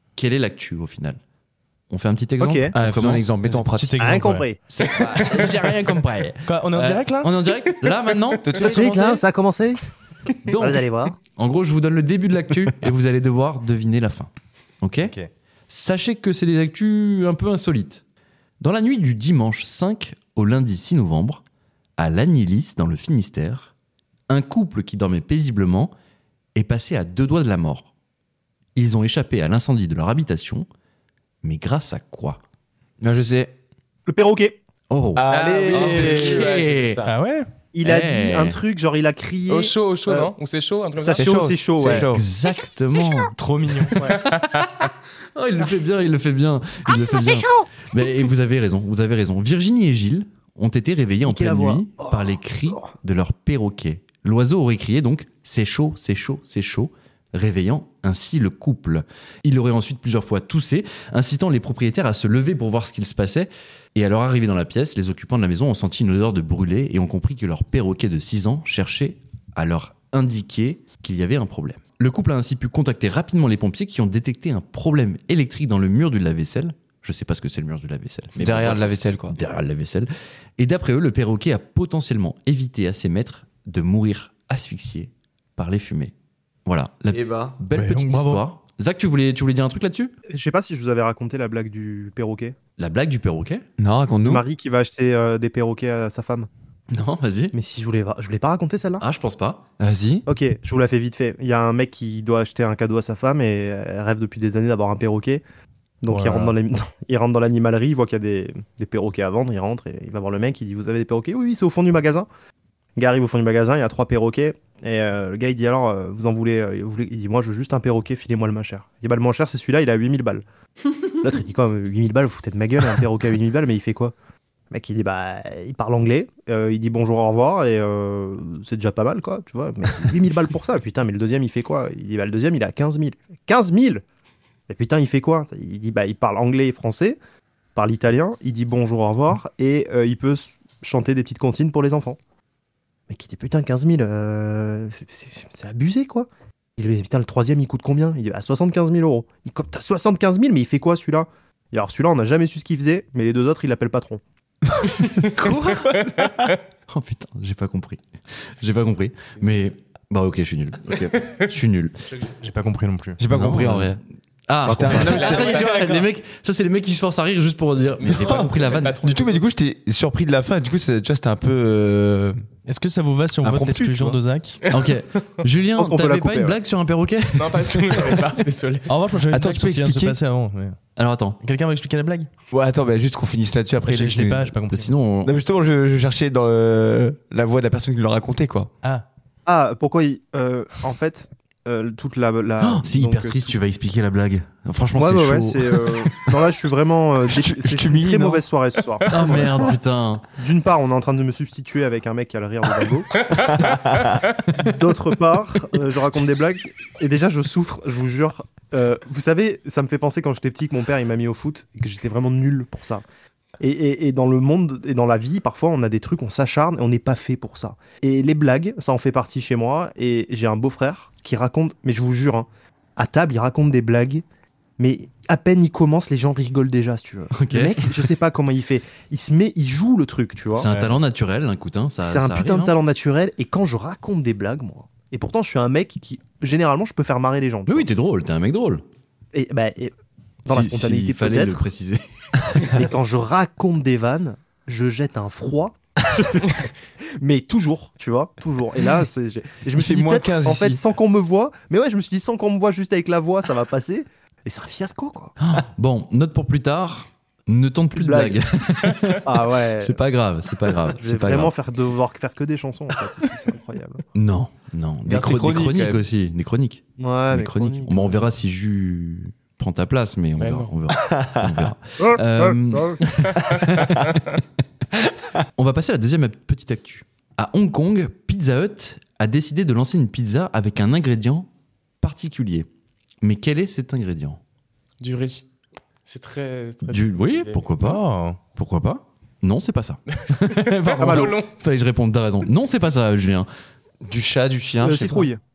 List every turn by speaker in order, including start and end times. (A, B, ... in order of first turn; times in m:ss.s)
0:00.2-0:01.2 A
0:01.9-0:03.3 A
0:02.4-0:02.7 B
0:02.7-0:04.3 C
0:03.5-0:04.5 D
0:04.0-0:04.6 B
0:04.7-0:09.2 A
0:05.0-0:05.5 E
0:06.5-0:07.4 D
0:07.7-0:08.2 E
0:08.4-0:09.0 C
0:08.6-0:09.8 B
0:10.4-0:14.3 A
0:10.5-0:11.2 B
0:14.8-0:15.1 A
0:15.0-0:15.3 D
0:15.7-0:18.0 A
0:18.6-0:21.4 A
0:22.0-0:23.7 A
0:24.3-0:25.9 A
0:26.6-0:27.9 A
0:28.8-0:30.7 A
0:31.4-0:32.4 A
0:33.0-0:33.5 C
0:34.1-0:34.6 B
0:34.9-0:37.0 A
0:35.2-0:36.5 C
0:35.3-0:37.2 E
0:37.0-0:37.5 D
0:37.7-0:40.3 B
0:37.8-0:38.6 A
0:39.5-0:41.3 E
0:41.0-0:42.1 B
0:41.2-0:42.2 C
0:41.9-0:43.4 A
0:43.3-0:44.0 D
0:43.9-0:44.9 E
0:44.0-1:26.1 A
0:51.2-0:52.2 B
1:18.4-1:19.4 C
1:26.7-1:30.1 A
1:27.1-1:27.6 C
1:27.7-1:28.4 D
1:30.3-1:32.6 B
1:32.8-1:33.6 A
1:33.8-1:34.4 C
1:34.3-1:36.5 B
1:36.9-1:37.6 A
1:37.5-1:39.0 B
1:39.0-1:39.6 A
1:39.8-1:40.3 C
1:40.3-1:45.4 B
1:46.0-1:52.3 B
1:46.1-1:46.6 D
1:53.0-2:00.4 B
2:01.2-2:04.1 B
2:04.7-2:14.0 B
2:14.7-2:17.2 B
2:17.8-2:22.2 B
2:23.1-2:26.3 B
2:26.8-2:34.2 B
2:34.9-2:36.6 E
2:35.2-2:36.3 A
2:36.9-2:38.0 A
2:38.6-2:41.9 A
2:41.2-2:41.5 E
2:42.3-2:43.2 D
2:43.2-2:44.0 C
2:43.3-2:43.9 A
2:44.5-2:49.0 A
2:44.6-2:45.6 C
2:44.9-2:46.0 E
2:48.0-2:49.4 E
2:49.0-2:52.4 C
2:52.7-2:54.6 D
2:53.4-2:54.2 C
2:54.7-2:58.2 A
2:55.8-2:56.6 B
2:57.4-2:58.9 E
2:58.9-3:00.8 D
2:59.3-3:00.2 C
3:01.0-3:01.4 A
3:01.4-3:02.3 D
3:02.5-3:04.5 C
3:03.8-3:04.9 D
3:04.7-3:05.3 A
3:05.2-3:08.7 C
3:09.5-3:13.6 B
3:12.6-3:16.1 A
3:15.0-3:19.8 B
3:17.3-3:18.4 C
3:19.1-3:20.2 A
3:20.4-3:23.8 B
3:23.3-3:24.2 C
3:24.4-3:33.0 B
3:33.6-3:44.2 B
3:44.8-3:50.7 B
3:47.3-3:47.8 A
3:50.5-3:52.8 A
3:50.7-3:51.0 D
3:52.0-3:57.9 B
3:57.7-3:58.8 A
3:59.3-3:59.9 B
4:00.5-4:01.7 B
4:00.5-4:02.0 A
4:02.7-4:15.3 B
4:09.8-4:10.8 C
4:15.4-4:21.5 A
4:18.0-4:18.4 B
4:19.2-4:20.0 B
4:20.7-4:24.0 B
4:24.2-4:34.4 A
4:25.1-4:26.0 C
4:27.0-4:28.3 B
4:30.4-4:30.8 E
4:31.1-4:31.7 C
4:32.0-4:33.0 B
4:35.4-4:41.5 A
4:42.0-4:42.7 A
4:43.2-4:44.4 A
4:45.0-4:45.5 E
4:46.1-4:47.7 E
4:46.8-4:48.0 A
4:47.8-4:48.4 D
4:48.6-4:53.5 A
4:50.3-4:51.5 E
4:51.0-4:51.3 B
4:54.0-4:55.3 C
4:54.8-4:55.4 B